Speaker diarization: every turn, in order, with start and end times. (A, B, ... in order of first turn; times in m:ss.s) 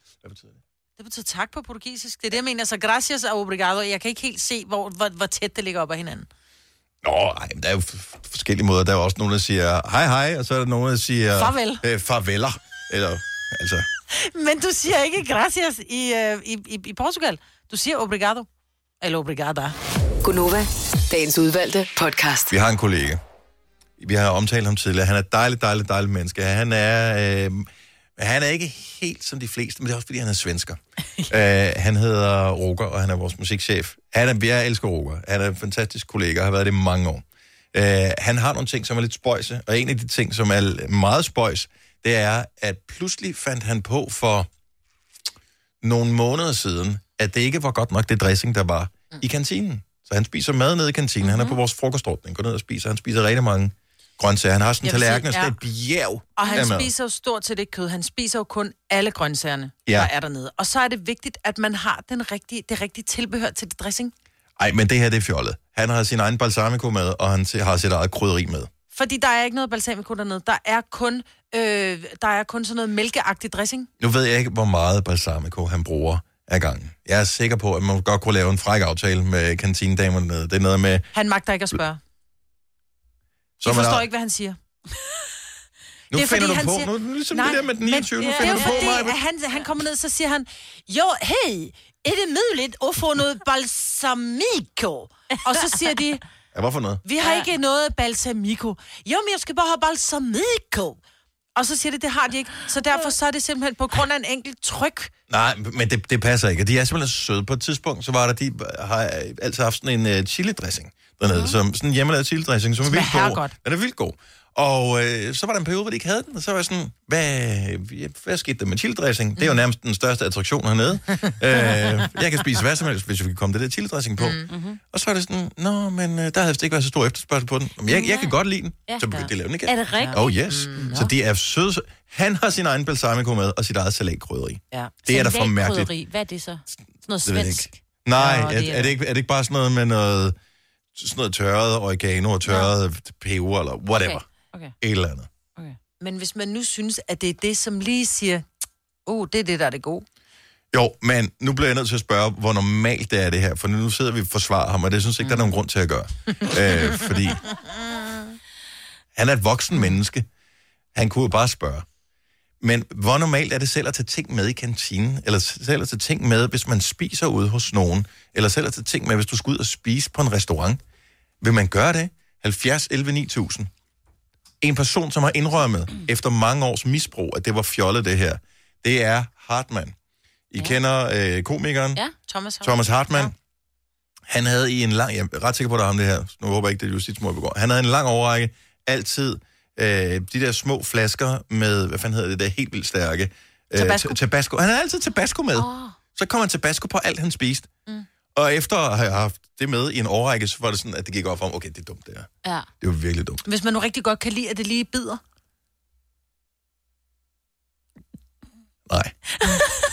0:00.2-0:00.5 A
0:01.0-0:06.3 B
0:07.0-0:13.9 A
0:11.3-0:11.8 B
0:14.1-0:18.5 B
0:19.0-0:19.8 B
0:20.2-0:22.5 C
0:22.5-0:23.2 A
0:24.0-0:44.5 A
0:45.8-0:56.9 A
0:54.8-0:55.5 B
0:56.4-1:04.1 B
0:59.8-1:00.1 A
1:04.6-1:08.7 A
1:08.9-1:13.9 B
1:14.0-1:21.1 A
1:21.1-1:22.0 B
1:23.6-1:24.0 A
1:23.6-1:24.6 B
1:26.1-1:29.2 A
1:26.1-1:36.2 B
1:28.2-1:28.9 D
1:36.5-1:37.0 A
1:37.0-1:41.0 B
1:37.2-1:37.5 D
1:41.6-1:45.1 B
1:45.3-2:15.9 A
1:52.8-1:53.5 B
2:04.2-2:04.5 B
2:04.5-2:04.8 D
2:07.9-2:08.3 D
2:08.9-2:11.1 D
2:10.0-2:11.1 B
2:15.0-2:17.8 D
2:17.2-2:20.3 A
2:18.2-2:18.9 B
2:20.9-2:24.2 A
2:24.0-2:24.7 D
2:24.8-2:25.3 A
2:26.0-2:28.4 B
2:29.0-2:30.0 B
2:30.7-2:37.4 A
2:39.1-2:40.2 A
2:40.9-2:41.8 A
2:42.6-2:50.8 A
2:51.4-2:53.7 A
2:54.6-2:59.9 A
3:00.5-3:02.0 A
3:02.3-3:03.3 B
3:02.6-3:03.3 A
3:04.3-3:17.7 A
3:13.7-3:14.2 B
3:15.6-3:15.9 D
3:18.3-3:22.3 A
3:22.8-3:23.4 A
3:23.4-3:25.2 B
3:28.9-3:29.2 A